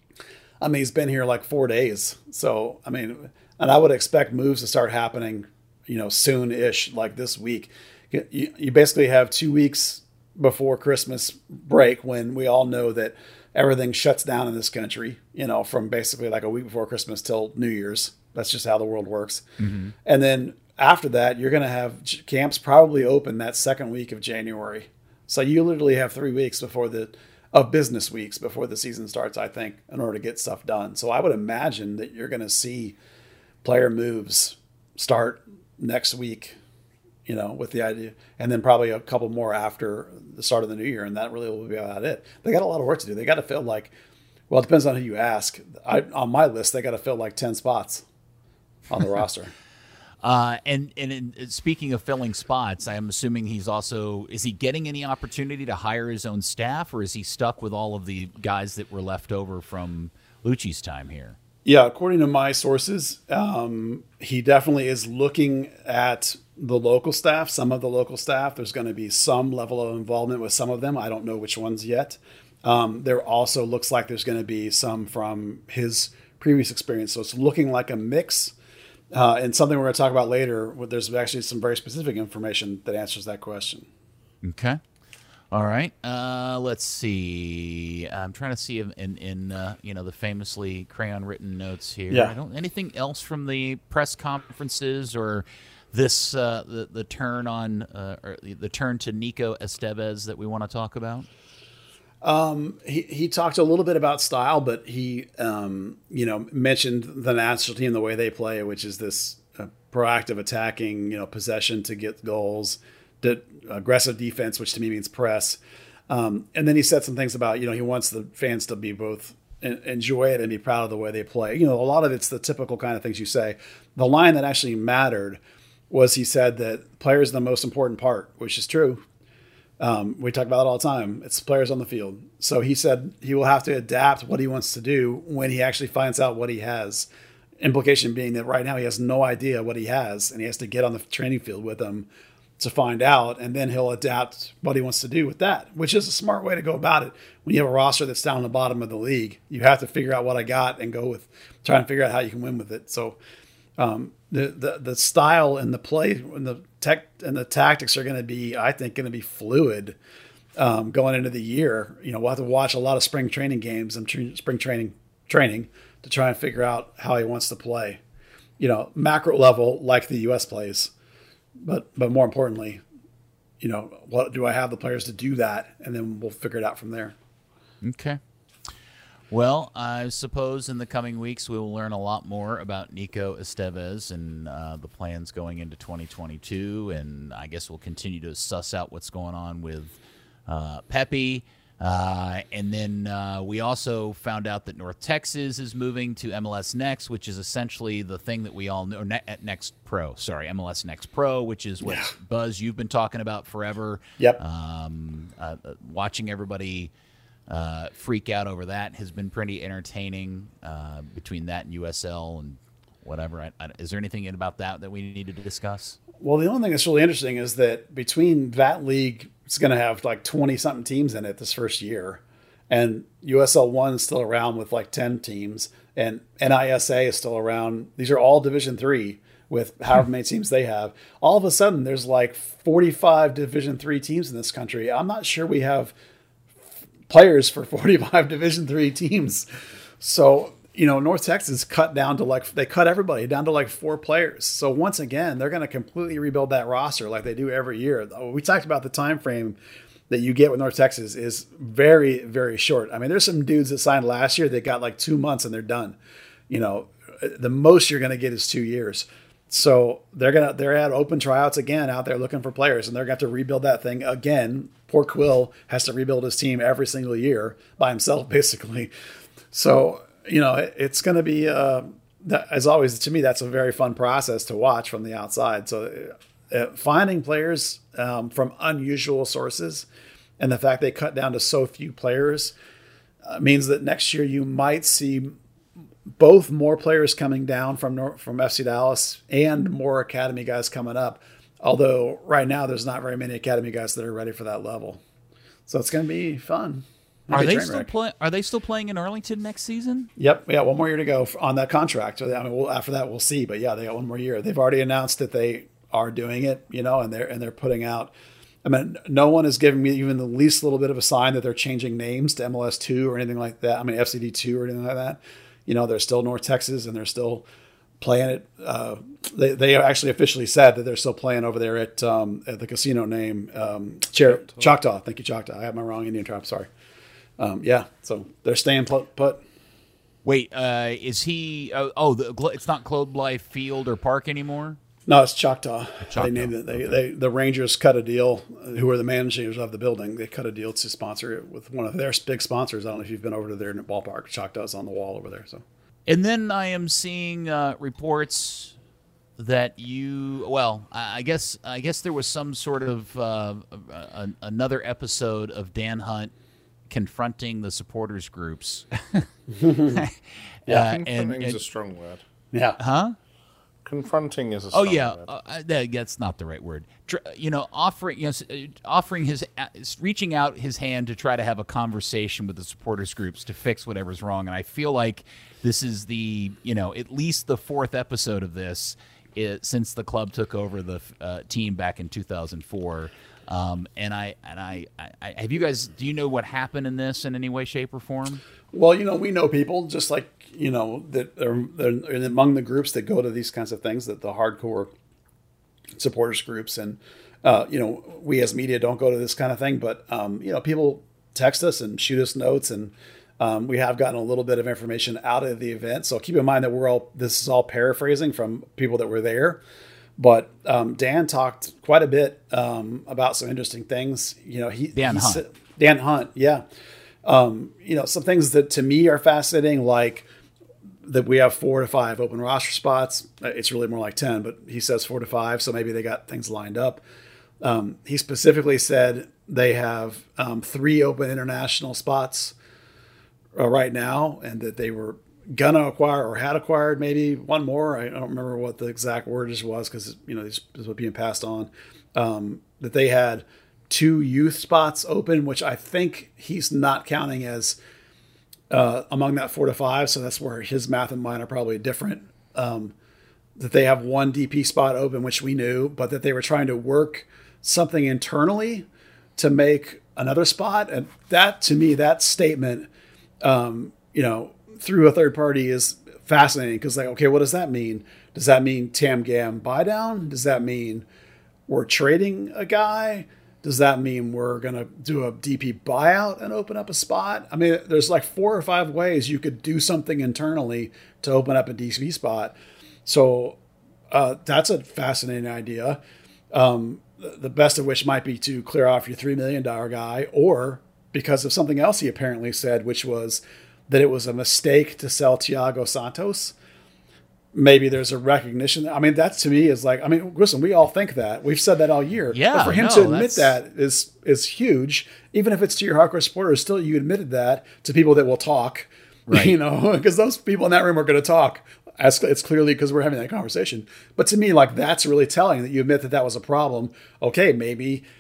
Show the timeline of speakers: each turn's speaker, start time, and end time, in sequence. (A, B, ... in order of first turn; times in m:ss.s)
0:00.6-0:19.4 A
0:19.6-0:19.9 B
0:20.0-0:33.0 A
0:33.6-0:36.6 A
0:37.3-0:43.9 A
0:44.5-0:48.0 A
0:48.9-0:49.5 A
0:50.2-1:01.4 B
1:01.6-1:18.6 A
1:19.1-1:23.9 A
1:24.4-1:24.8 B
1:25.5-1:41.3 B
1:32.1-1:32.3 A
1:42.2-2:09.0 A
2:09.8-2:17.1 A
2:17.6-2:22.1 A
2:22.6-2:33.2 A
2:33.8-2:40.0 A
2:40.6-2:48.0 A
2:48.6-2:50.9 A
2:51.6-2:52.8 A
2:53.6-2:57.1 A
2:57.8-2:58.2 B
2:59.3-3:26.9 B
3:21.8-3:22.1 A
3:27.5-3:36.0 B
3:36.2-3:55.9 A
3:57.1-3:59.5 A
4:00.0-4:09.6 A
4:10.1-4:16.0 A
4:16.5-4:28.9 A
4:29.5-4:39.9 A
4:40.4-4:42.6 A
4:43.3-4:45.4 A
4:46.2-4:55.0 A
4:55.7-4:57.9 A
4:57.3-5:00.1 B
5:00.2-5:08.1 A
5:08.6-5:17.5 A
5:18.0-5:26.7 A
5:27.4-5:29.4 A
5:30.2-5:34.8 B
5:35.1-5:45.6 A
5:36.1-5:37.0 B
5:46.1-5:48.8 B
5:49.4-5:56.3 B
5:56.9-6:01.6 B
5:59.6-6:00.0 A
6:00.9-6:02.2 C
6:02.5-6:02.8 A
6:02.8-6:03.2 B
6:03.8-6:05.3 C
6:04.7-6:28.4 B
6:28.7-6:34.9 A
6:36.0-6:49.6 A
6:50.2-6:56.6 A
6:55.0-6:55.4 B
6:57.2-7:00.3 A
7:01.0-7:07.0 A
7:07.6-7:12.6 A
7:13.6-7:27.8 A
7:28.7-7:32.9 A
7:33.6-7:42.9 A
7:43.4-7:51.1 A
7:51.7-8:03.6 A
8:04.1-8:06.0 A
8:06.5-8:16.6 A
8:17.5-8:38.0 A
8:22.3-8:23.5 B
8:29.3-8:29.5 B